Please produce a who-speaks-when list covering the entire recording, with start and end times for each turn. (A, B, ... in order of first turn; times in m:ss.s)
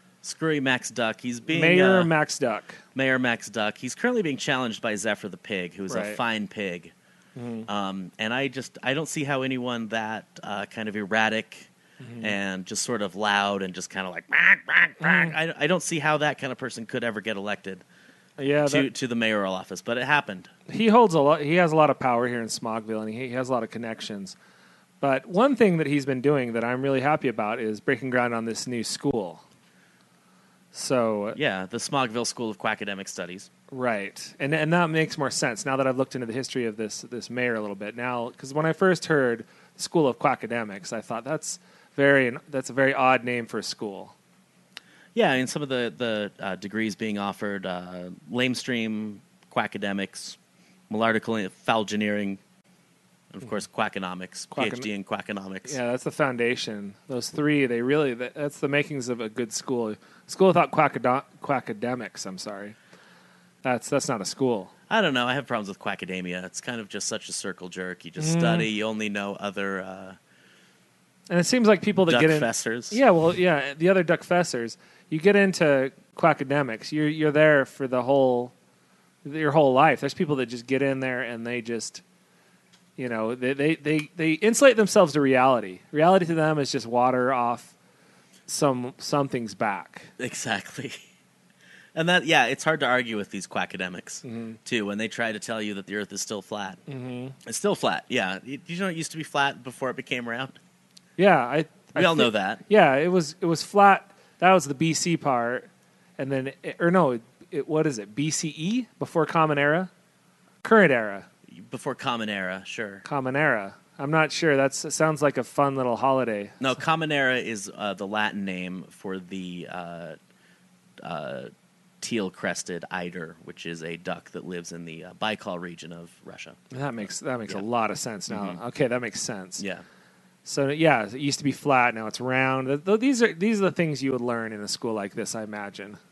0:00.2-0:02.1 A
0:01.5-0:02.8 B
0:02.9-0:06.9 A
0:05.9-0:06.2 B
0:07.4-0:07.7 B
0:07.6-0:11.7 A
0:12.0-0:12.4 B
0:12.2-0:17.8 A
0:15.0-0:15.3 B
0:18.4-0:18.9 B
0:18.6-0:20.5 A
0:20.7-0:24.4 B
0:25.0-0:29.4 B
0:30.7-0:31.4 B
0:31.3-0:33.5 A
0:33.7-0:44.1 B
0:45.1-0:50.4 A
0:50.9-0:52.4 A
0:53.3-0:55.8 A
0:54.5-0:54.9 B
0:55.7-1:02.8 B
1:03.6-1:04.7 B
1:04.9-1:10.2 A
1:08.2-1:08.7 B
1:11.3-1:18.5 B
1:12.1-1:13.0 A
1:19.2-1:22.0 B
1:23.0-1:27.7 B
1:28.5-1:30.1 B
1:30.2-1:31.0 A
1:31.9-1:36.8 A
1:34.2-1:34.6 B
1:36.9-1:37.4 B
1:37.4-1:40.6 A
1:41.2-1:49.9 B
1:41.9-1:42.6 A
1:50.6-1:51.3 B
1:51.5-1:53.0 A
1:53.0-1:56.8 B
1:56.6-2:00.2 A
2:01.0-2:06.6 A
2:06.7-2:09.6 B
2:08.3-2:08.6 A
2:09.6-2:09.8 A
2:10.4-2:16.0 B